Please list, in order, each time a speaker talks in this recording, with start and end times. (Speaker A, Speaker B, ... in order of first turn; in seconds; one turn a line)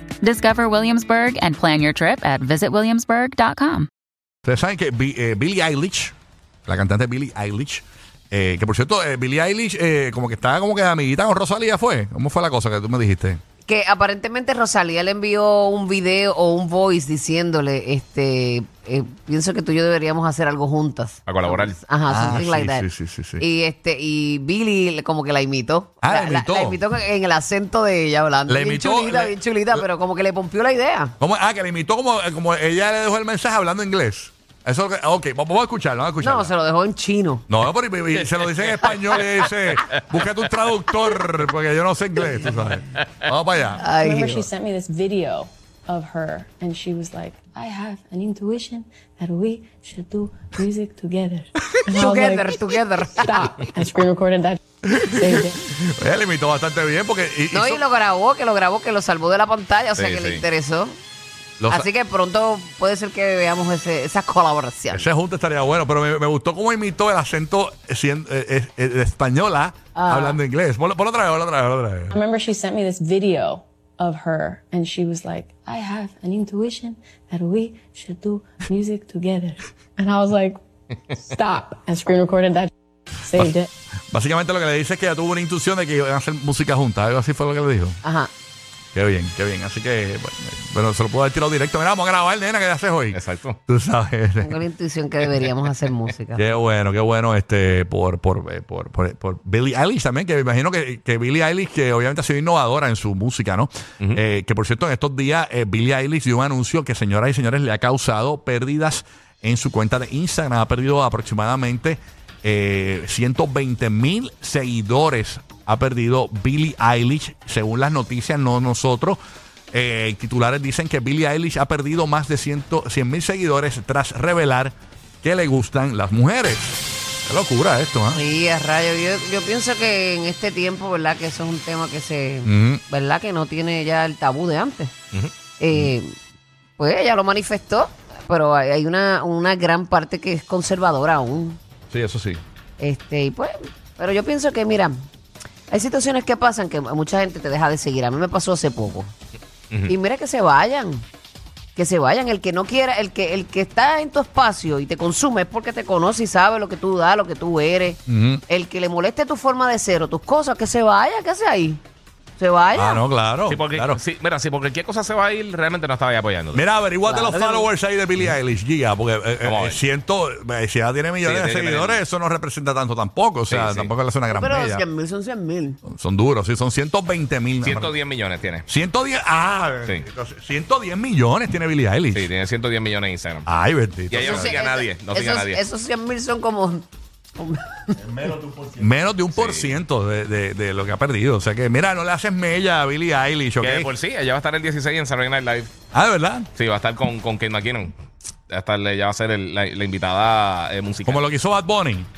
Speaker A: 0.2-3.9
Speaker B: 4.5-6.1
Speaker B: 6.7-13.4
Speaker C: 13.7-22.9
Speaker D: 21.3-21.8
Speaker B: 22.1-23.4
Speaker C: 23.4-31.1
Speaker B: 26.0-26.8
Speaker B: 28.5-29.9
Speaker B: 31.2-36.5
Speaker C: 36.2-37.4
Speaker B: 37.5-43.9
Speaker D: 38.6-39.5
Speaker C: 43.8-44.5
Speaker E: 44.0-52.6
Speaker C: 51.9-53.4
Speaker E: 53.2-55.6
Speaker B: 55.0-57.8
Speaker C: 57.5-61.0
Speaker D: 60.0-60.4
Speaker B: 61.6-61.9
Speaker C: 61.7-65.1
Speaker B: 64.9-72.2
Speaker C: 70.0-70.4
Speaker E: 72.1-83.7
Speaker B: 84.1-88.0
Speaker C: 88.0-88.3
Speaker B: 88.9-94.6
Speaker D: 93.1-93.6
Speaker C: 94.4-96.4
Speaker B: 96.4-119.2
Speaker B: 119.7-128.2
Speaker C: 128.1-134.9
Speaker B: 132.5-132.8
Speaker C: 135.6-136.1
Speaker C: 136.8-141.6
Speaker B: 141.9-142.4
Speaker C: 142.8-145.0
Speaker C: 145.7-149.1
Speaker C: 149.9-151.1
Speaker C: 151.8-161.8
Speaker B: 158.1-158.4
Speaker C: 162.4-163.0
Speaker B: 162.7-164.0
Speaker D: 163.5-166.6
Speaker B: 166.5-174.8
Speaker C: 167.1-167.7
Speaker D: 169.4-169.8
Speaker D: 171.2-172.0
Speaker D: 173.5-173.9
Speaker C: 174.3-175.8
Speaker B: 175.9-177.9
Speaker D: 177.6-178.7
Speaker B: 178.7-182.3
Speaker D: 182.1-183.5
Speaker B: 183.5-184.6
Speaker D: 184.1-185.6
Speaker C: 184.2-188.3
Speaker B: 188.8-193.9
Speaker D: 189.3-189.8
Speaker D: 193.6-195.7
Speaker B: 195.9-196.5
Speaker D: 196.6-197.9
Speaker D: 198.5-201.2
Speaker B: 201.1-202.1